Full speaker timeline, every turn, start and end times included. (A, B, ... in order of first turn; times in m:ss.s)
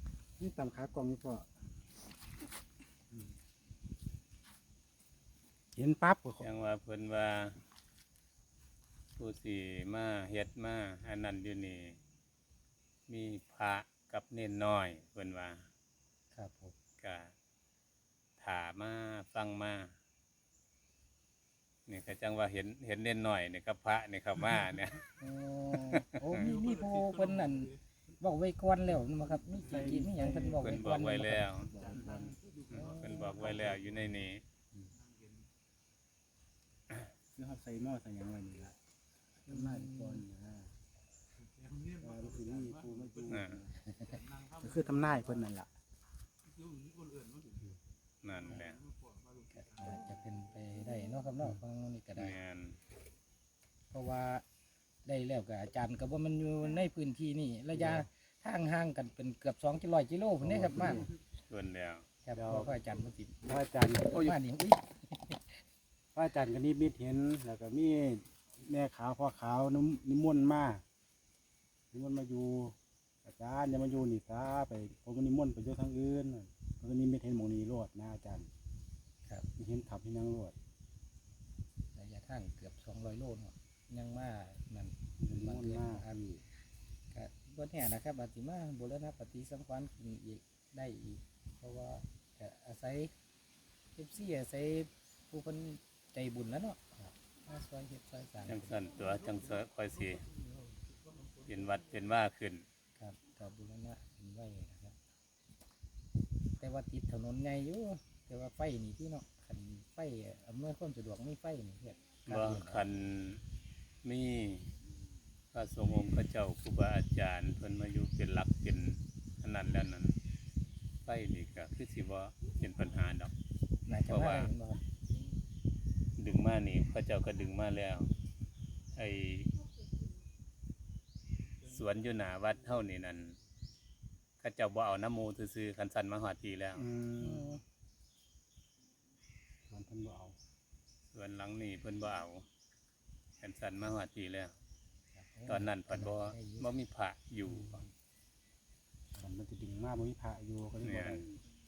0:00.4-0:01.5 A
0:05.8-0:06.5 A
0:06.4-0:07.6 B
0:09.2-0:12.0 B
0:13.1-0:15.7 B
0:16.3-0:16.7 C
0:17.0-0:17.3 B
0:18.4-0:19.9 B
0:21.9-0:25.1 B
0:25.2-0:31.5 C
0:29.6-0:30.8 A
0:30.6-0:31.7 B
0:31.7-0:32.4 A
0:32.7-0:33.3 C
0:32.7-0:34.4 B
0:37.3-0:38.8 A
0:39.5-0:40.7 A
0:39.5-0:40.2 C
0:42.0-0:43.8 A
0:43.3-0:43.6 B
0:44.5-0:45.7 A
0:48.2-0:48.8 B
0:49.5-0:52.4 C
0:52.2-0:52.8 B
0:53.9-0:54.4 C
0:55.0-1:01.1 C
0:57.7-0:58.1 A
1:00.4-1:01.1 A
1:01.5-1:02.1 B
1:02.2-1:05.6 C
1:02.3-1:02.7 A
1:03.4-1:04.3 A
1:06.1-1:10.8 A
1:11.9-1:18.5 A
1:19.6-1:20.6 A
1:22.0-1:26.3 C
1:25.2-1:26.4 A
1:27.1-1:33.1 C
1:34.0-1:38.8 C
1:38.4-1:40.3 B
1:41.4-1:42.6 B
1:43.0-1:45.0 C
1:46.6-1:52.9 C
1:52.3-1:53.4 B
1:54.0-1:54.8 B
1:55.5-2:00.2 B
2:01.0-2:03.3 B
2:03.9-2:04.8 C
2:04.1-2:04.5 B
2:06.2-2:08.1 B
2:09.0-2:09.5 B
2:11.6-2:13.4 B
2:14.4-2:16.9 B
2:16.8-2:17.6 A
2:17.2-2:17.6 C
2:19.7-2:20.4 A
2:21.1-2:22.4 B
2:23.4-2:24.5 B
2:25.2-2:26.7 C
2:25.5-2:27.8 B
2:29.2-2:31.4 A
2:30.8-2:31.3 B